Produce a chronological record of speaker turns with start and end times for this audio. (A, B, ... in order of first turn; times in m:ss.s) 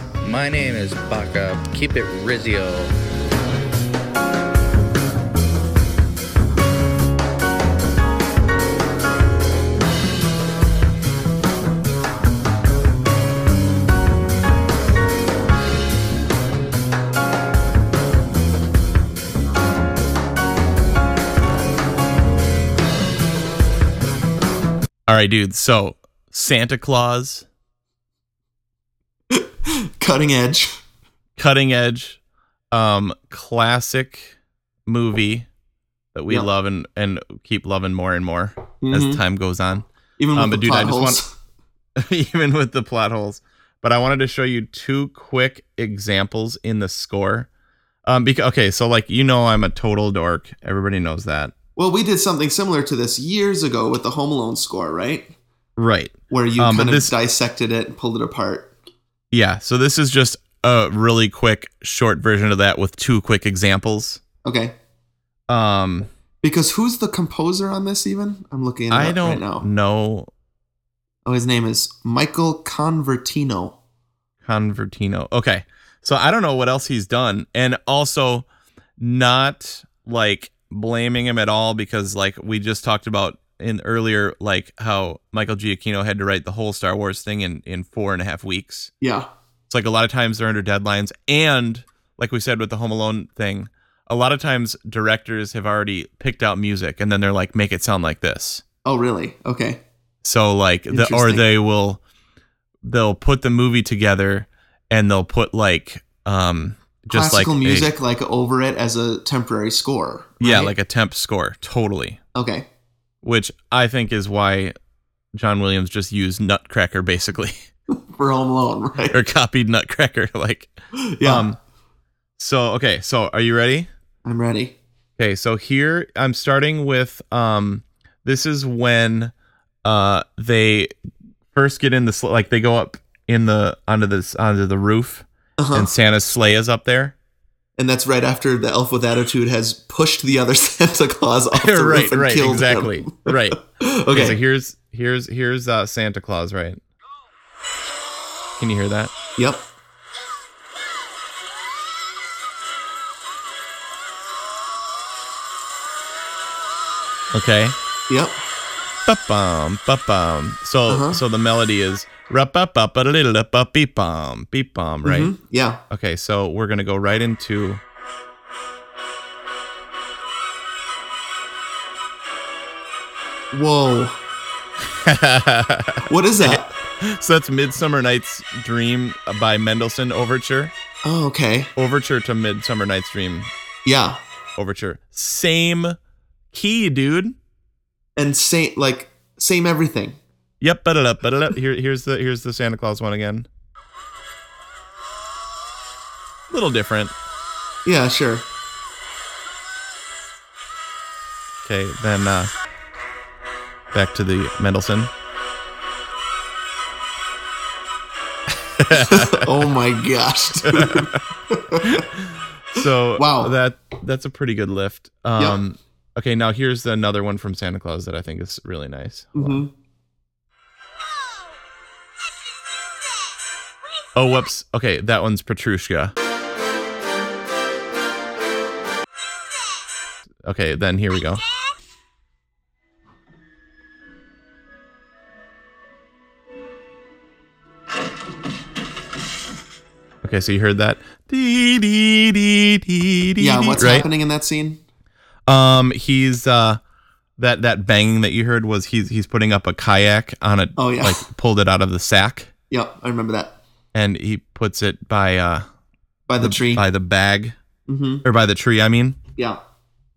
0:00.2-0:02.9 A
0:25.1-0:27.4 B
0:29.3-0:30.8 C
0:31.4-0:32.2 B
0:32.7-0:34.3 B
0:34.8-0:35.5 B
0:36.1-0:41.2 B
0:38.8-0:39.2 C
0:40.2-0:41.3 C
0:42.0-0:47.5 B
0:48.0-0:51.5 B
0:51.8-0:55.3 C
0:55.8-0:57.1 B
0:56.3-0:58.7 C
0:59.3-1:04.2 B
1:04.4-1:04.8 C
1:05.5-1:06.1 B
1:06.4-1:09.7 C
1:08.9-1:10.3 B
1:11.2-1:13.8 C
1:14.4-1:18.4 B
1:19.0-1:28.9 B
1:29.0-1:29.3 C
1:29.7-1:38.6 B
1:38.8-1:39.8 C
1:40.2-1:42.0 B
1:40.9-1:41.4 C
1:42.8-1:47.9 B
1:47.1-1:50.7 C
1:50.4-1:52.2 B
1:52.3-1:52.7 C
1:53.2-1:54.7 B
1:55.3-1:57.6 B
1:57.9-1:59.2 C
1:59.1-2:00.7 B
2:00.9-2:01.5 C
2:01.2-2:01.6 B
2:02.4-2:03.9 B
2:04.2-2:04.8 C
2:05.2-2:09.3 B
2:09.8-2:10.9 B
2:11.5-2:17.1 B
2:15.6-2:15.9 C
2:17.8-2:24.4 C
2:21.5-2:23.6 B
2:24.1-2:26.8 B
2:28.6-2:29.1 B
2:29.4-2:29.7 C
2:37.3-2:37.8 B
2:38.1-2:38.4 C
2:39.0-2:45.3 B
2:40.9-2:41.2 C
2:45.0-2:45.8 C
2:45.9-2:47.8 B
2:53.5-2:54.2 C
2:54.8-3:00.7 B
2:56.0-2:56.7 C
3:01.0-3:01.7 C
3:01.8-3:03.5 B
3:03.8-3:04.2 C
3:04.6-3:06.0 B
3:06.5-3:07.4 B
3:08.2-3:10.2 C
3:10.6-3:13.5 B
3:16.5-3:17.1 B
3:17.8-3:18.5 C
3:21.6-3:22.5 B
3:23.9-3:25.1 B
3:28.8-3:29.5 B
3:28.9-3:32.0 C
3:30.6-3:31.1 B
3:31.8-3:39.6 B
3:33.1-3:33.6 C
3:39.3-3:39.7 C
3:44.1-3:46.1 B
3:50.4-3:51.4 B
4:00.2-4:04.1 B
4:03.4-4:04.8 C
4:05.5-4:06.8 B
4:07.4-4:12.5 B
4:10.8-4:11.2 C
4:12.7-4:13.6 C
4:13.9-4:15.6 B
4:16.3-4:16.8 C
4:16.4-4:17.6 B
4:17.9-4:18.2 C
4:18.2-4:19.2 B